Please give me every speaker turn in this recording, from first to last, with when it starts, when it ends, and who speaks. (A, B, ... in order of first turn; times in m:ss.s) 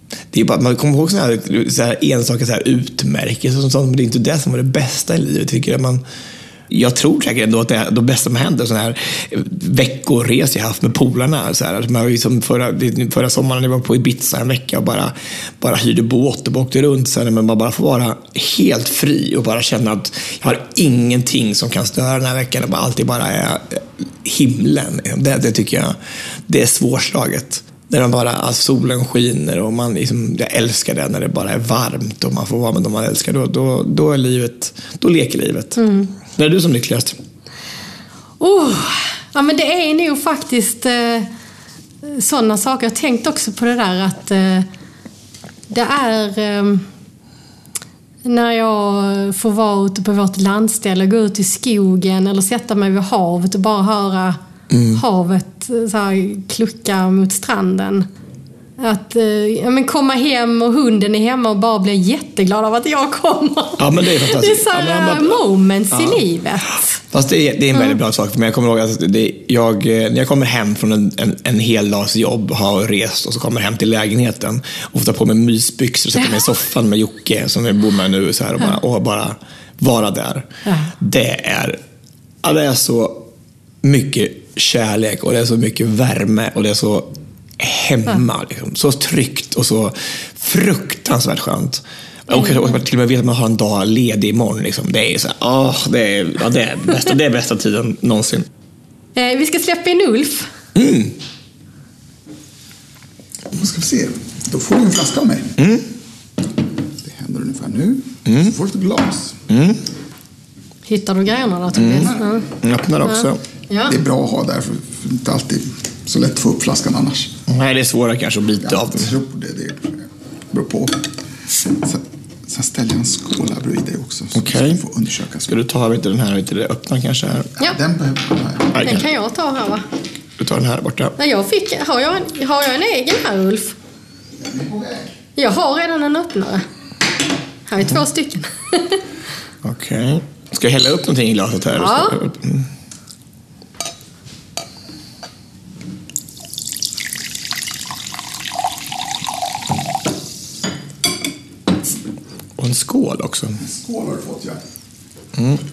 0:00.3-0:06.0 A
0:06.7-0:26.0 A
0:26.5-0:37.1 A
0:35.8-0:36.1 B
0:38.4-0:41.3 B
0:42.0-0:44.7 B
0:45.7-0:46.8 B
0:48.2-0:54.4 B
0:54.7-0:55.0 A
0:54.9-0:58.1 B
0:58.8-1:07.0 B
1:03.8-1:05.4 A
1:05.9-1:06.2 A
1:07.1-1:21.8 A
1:22.4-1:23.3 A
1:23.8-1:38.5 A
1:32.3-1:32.6 B
1:39.2-1:40.5 B
1:40.7-1:41.1 A
1:43.5-1:45.5 C
1:45.6-1:45.9 A
1:47.0-1:49.4 C
1:48.2-1:48.5 A
1:49.5-1:49.8 A
1:50.9-1:52.4 B
1:51.7-1:53.4 A
1:53.0-1:53.9 B
1:53.9-1:57.3 C
1:57.5-1:59.1 A
1:58.6-2:05.5 C
2:04.4-2:04.8 A
2:05.4-2:07.5 A
2:07.6-2:08.8 C
2:08.7-2:09.1 A
2:08.8-2:09.8 B
2:10.4-2:11.1 A
2:11.2-2:13.7 B
2:14.4-2:15.1 C
2:15.4-2:16.6 B
2:17.7-2:19.0 B
2:19.6-2:22.7 A
2:21.8-2:22.2 B
2:32.6-2:33.6 A
2:33.6-2:34.6 C
2:35.4-2:35.6 A